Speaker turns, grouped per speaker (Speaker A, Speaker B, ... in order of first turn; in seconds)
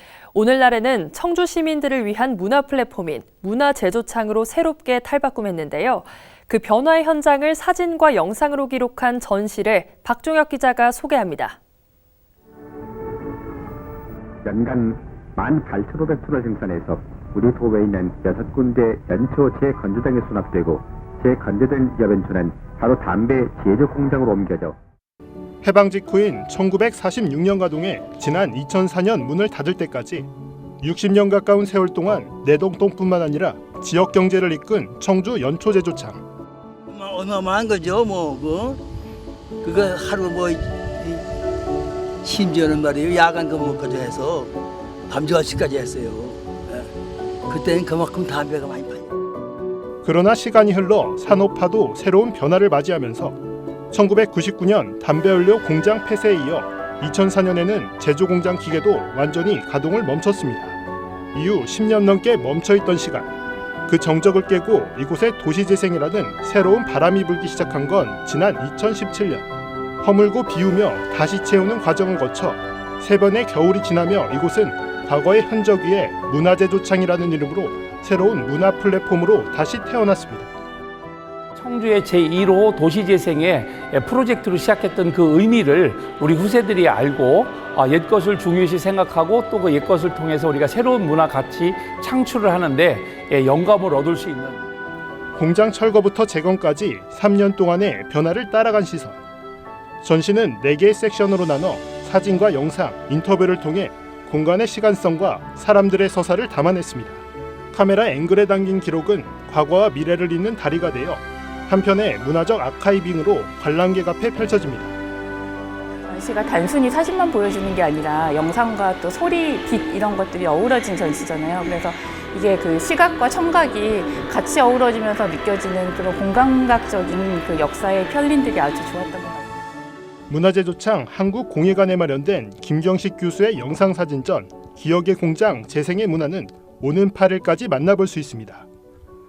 Speaker A: 0.3-11.6
Speaker B: 14.4-24.8
Speaker C: 25.6-30.3, 30.8-36.2, 50.0-53.4, 53.9-60.8, 61.3-63.3, 63.9-69.5, 70.0-80.5, 95.4-99.2, 100.0-115.0, 130.3-138.7
Speaker D: 36.9-38.8, 39.6-41.2, 42.2-44.5, 45.1-46.9, 47.5-49.1
Speaker E: 81.5-94.7
Speaker F: 116.0-129.6